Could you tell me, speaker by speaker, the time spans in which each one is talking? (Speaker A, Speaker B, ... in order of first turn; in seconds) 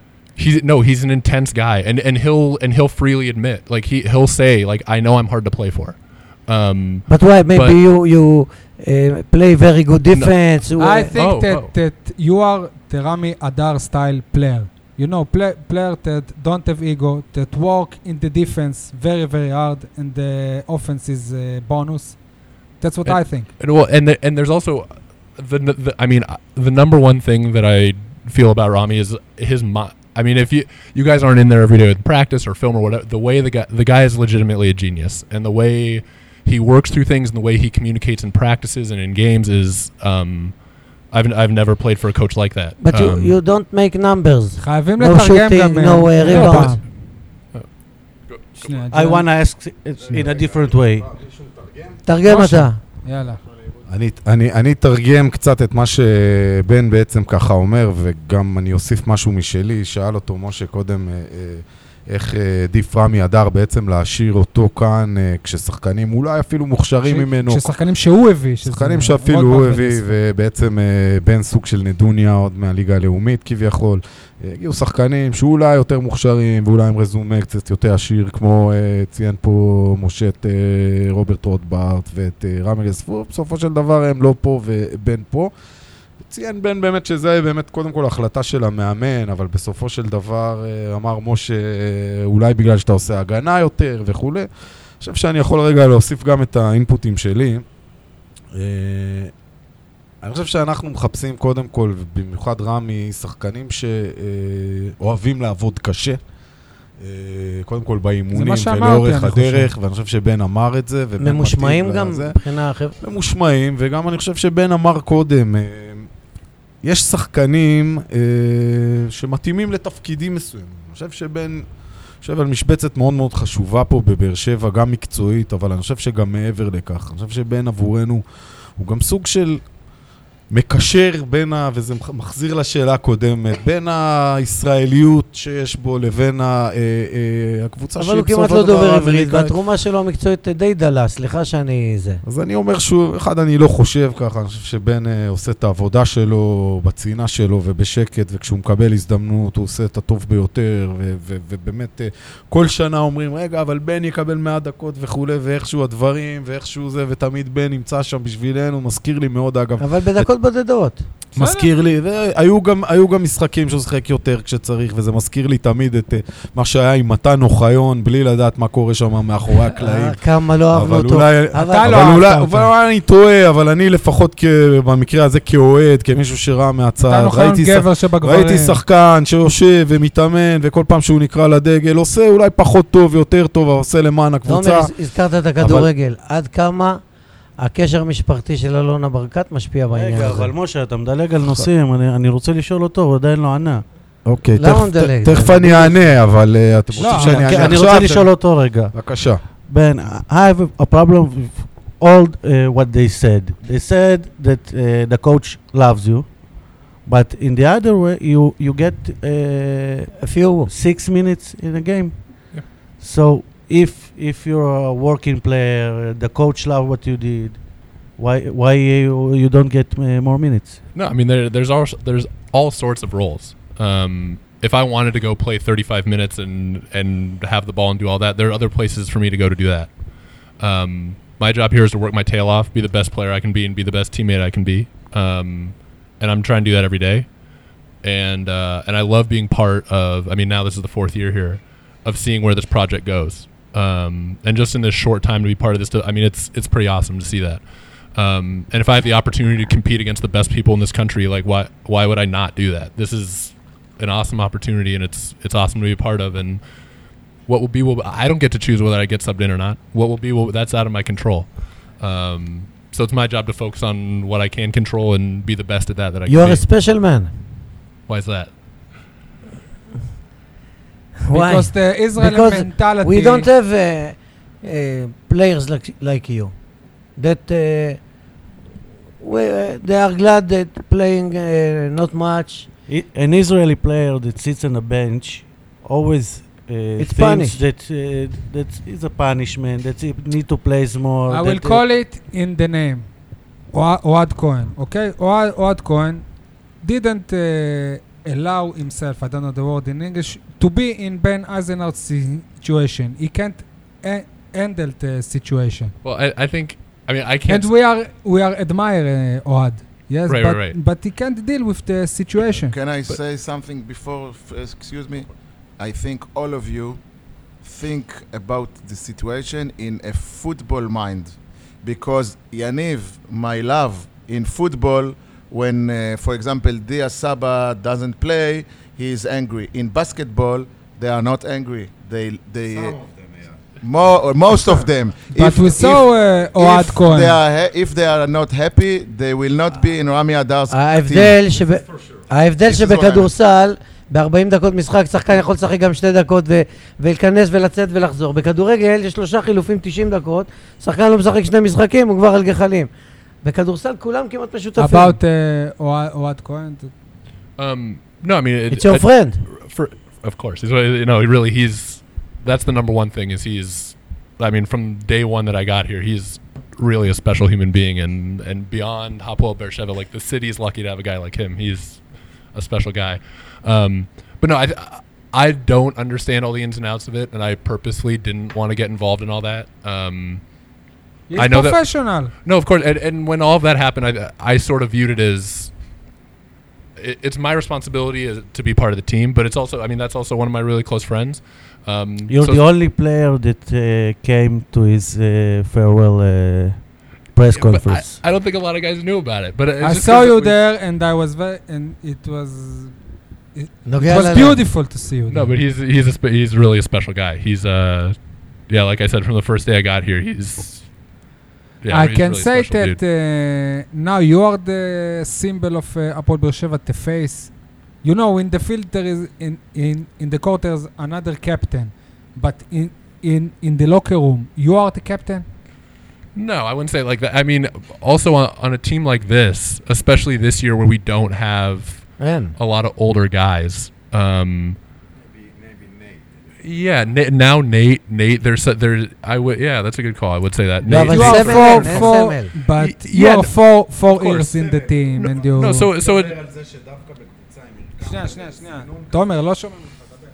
Speaker A: 0.3-7.8, 11.1-11.7, 23.1-40.5, 41.1-43.4, 48.3-48.7, 220.9-229.9, 230.6-237.3, 238.0-247.6, 248.1-256.6, 257.5-266.6, 268.1-268.5, 306.0-307.7, 310.3-310.8, 357.6-372.0, 372.5-380.4, 381.3-385.7, 387.0-392.6, 397.5-400.6, 405.3-408.1, 408.7-410.9, 411.8-413.0, 426.3-434.8, 436.6-444.5, 445.1-446.4
Speaker B: 7.1-11.1, 42.8-46.8, 52.0-52.8, 111.2-113.0, 138.0-142.2, 159.8-161.1, 169.7-172.3, 184.5-187.0, 187.6-190.5, 194.6-196.0, 210.2-210.7, 266.3-267.3, 271.2-276.5, 277.1-278.0, 279.2-282.7, 287.0-287.6, 340.7-352.9, 353.4-355.2, 358.7-359.4, 403.9-404.6, 432.2-432.6, 440.8-442.5
Speaker C: 10.8-22.2, 22.8-23.5, 44.6-46.8, 48.6-49.3, 52.2-53.4, 67.0-70.2, 108.3-109.7, 161.3-161.7, 171.5-172.7, 177.0-178.8, 197.0-197.6, 271.3-273.5, 291.3-293.1, 293.7-296.2, 296.8-305.9, 307.5-312.8, 335.3-337.4, 354.8-356.9, 381.3-382.3, 399.8-402.9, 403.5-405.5, 411.9-417.5, 418.0-425.4, 440.9-445.9, 448.0-450.0
Speaker D: 48.9-51.1, 189.9-193.8, 197.0-198.9, 199.6-210.1, 210.7-220.8, 282.9-291.8, 392.3-398.2
Speaker E: 50.1-52.0, 53.8-67.7, 68.6-85.5, 86.2-94.5, 95.0-97.6, 98.5-99.3, 100.2-106.2, 107.0-112.4, 113.0-116.1, 116.8-121.7, 122.2-128.2, 128.8-129.6, 130.5-139.6, 142.2-160.3, 161.3-184.9, 185.6-185.9, 194.2-199.4, 435.6-436.2, 444.5-445.0, 445.9-449.2
Speaker F: 312.5-317.0, 317.6-333.1, 333.8-341.4, 342.6-343.3